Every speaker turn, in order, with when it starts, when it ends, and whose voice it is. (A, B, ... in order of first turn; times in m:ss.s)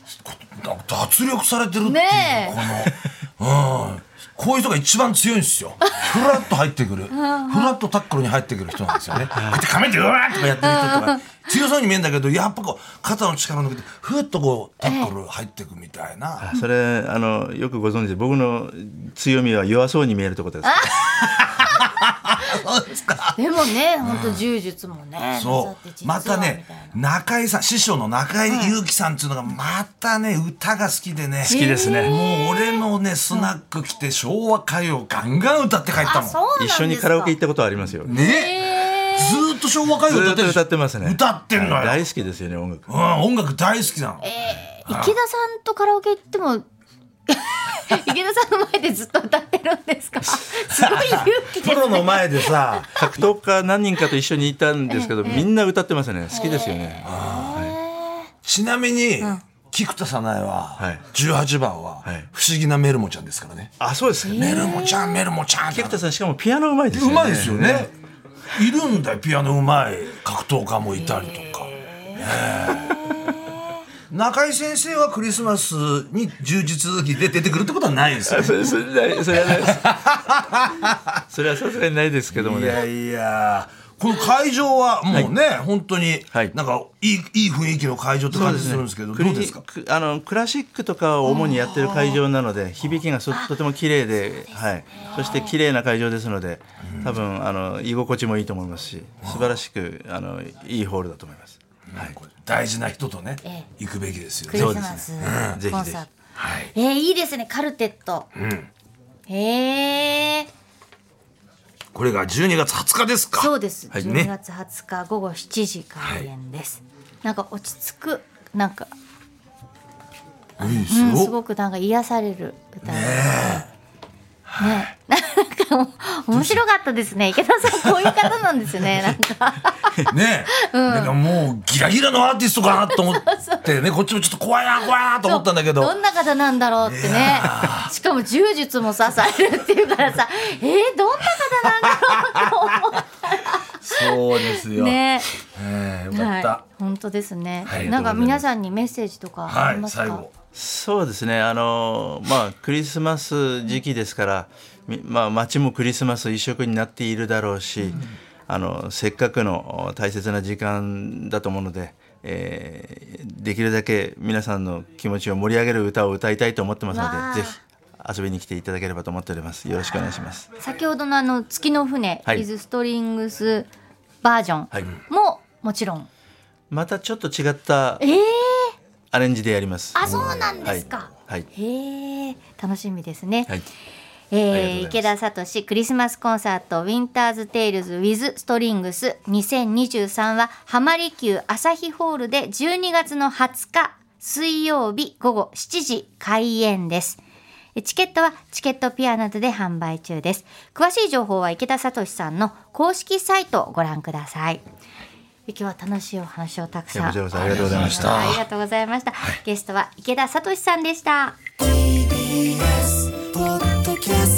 0:00.2-0:16.5 A
0:01.8-0:02.6 B
0:05.8-0:06.2 B
0:07.1-0:07.8 B
0:09.3-0:09.6 C
0:10.4-0:11.3 B
0:14.8-0:15.1 B
0:16.4-0:20.9 C
0:20.6-0:21.5 B
0:21.1-0:23.4 A
0:23.4-0:27.0 B
0:24.0-0:24.4 A
0:25.4-0:36.4 A
0:28.5-0:28.7 B
0:31.4-0:32.2 C
0:31.4-0:33.5 B
0:36.0-0:37.4 B
0:36.6-0:38.1 C
0:38.0-0:42.0 A
0:38.1-0:39.4 B
0:40.1-0:42.9 C
0:42.9-0:44.3 A
0:44.2-0:46.6 B
0:44.8-0:45.1 A
0:47.3-0:52.6 B
0:50.7-0:53.1 A
0:53.0-0:57.7 C
0:54.9-0:55.5 B
0:56.3-0:58.3 B
0:57.0-0:57.7 A
0:58.4-1:03.7 A
1:00.8-1:01.0 C
1:03.8-1:04.6 C
1:04.2-1:05.2 B
1:04.3-1:06.0 A
1:05.7-1:07.9 C
1:06.9-1:07.9 A
1:08.5-1:13.0 A
1:11.0-1:13.8 B
1:14.1-1:18.7 A
1:18.3-1:19.8 C
1:19.3-1:21.2 A
1:21.3-1:22.8 C
1:22.3-1:29.6 A
1:28.3-1:42.1 C
1:31.2-1:32.2 B
1:33.3-1:33.6 B
1:34.3-1:35.6 B
1:36.8-1:37.2 A
1:39.2-1:39.6 A
1:41.9-1:45.6 A
1:43.4-1:43.7 B
1:44.5-1:46.1 B
1:44.5-1:46.0 C
1:46.4-1:46.7 A
1:46.7-1:48.3 B
1:48.3-1:48.7 A
1:49.3-1:50.5 B
1:51.9-1:54.3 A
1:53.4-1:58.9 B
1:53.9-1:54.2 C
1:56.0-1:56.3 A
2:00.6-2:01.3 A
2:00.9-2:03.6 B
2:02.8-2:03.7 A
2:04.5-2:04.9 A
2:04.6-2:11.2 B
2:10.1-2:15.9 A
2:12.7-2:13.7 B
2:15.2-2:25.3 B
2:16.8-2:17.9 A
2:21.8-2:22.5 A
2:23.8-2:26.6 A
2:26.1-2:30.2 B
2:27.6-2:27.9 A
2:27.7-2:28.4 C
2:29.5-2:30.3 A
2:30.5-2:50.4 C
2:46.9-2:47.6 B
2:49.9-2:53.7 B
2:54.2-2:56.1 B
2:56.7-2:58.0 C
2:58.0-2:58.7 B
2:59.1-3:00.0 C
2:59.9-3:03.5 B
3:00.0-3:00.5 A
3:00.6-3:01.5 C
3:04.3-3:17.2 B
3:04.5-3:05.1 C
3:17.8-3:24.6 B
3:25.5-3:31.4 B
3:26.9-3:28.2 C
3:27.3-3:28.4 A